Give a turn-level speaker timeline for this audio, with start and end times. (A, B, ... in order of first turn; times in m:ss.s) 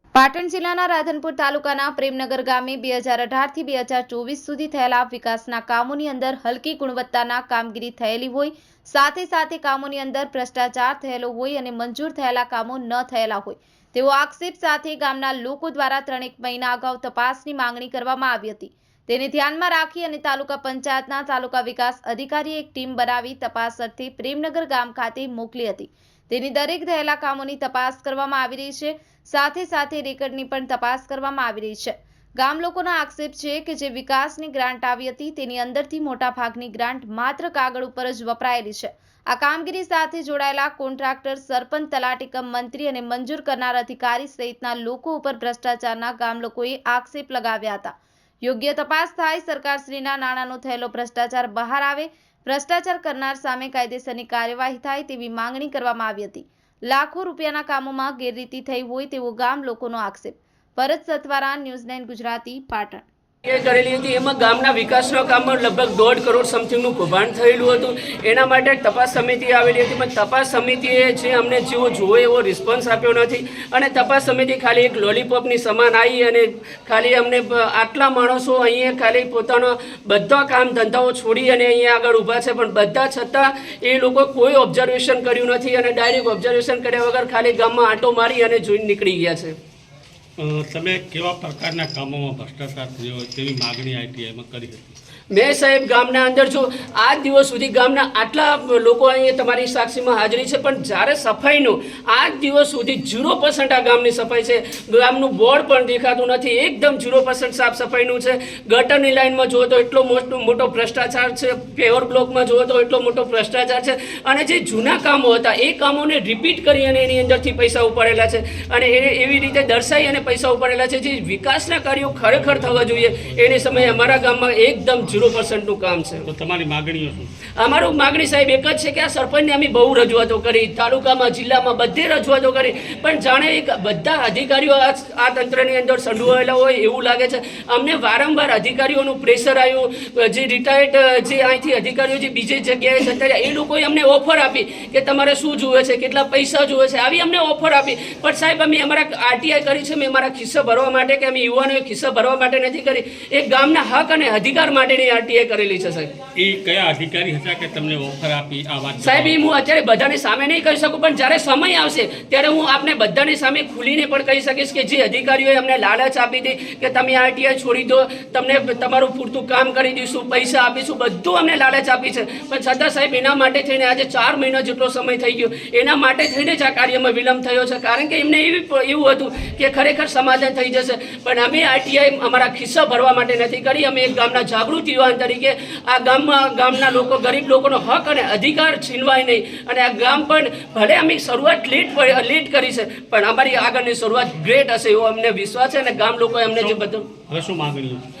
0:00.2-1:03.0 A
1:03.4-1:29.6 B
1:30.4-1:35.0 C
1:35.3-2:06.3 B
2:02.3-2:04.2 C
2:06.2-2:07.3 C
2:07.6-2:36.1 B
2:36.3-2:39.4 C
2:39.0-3:17.1 B
3:16.5-3:18.0 C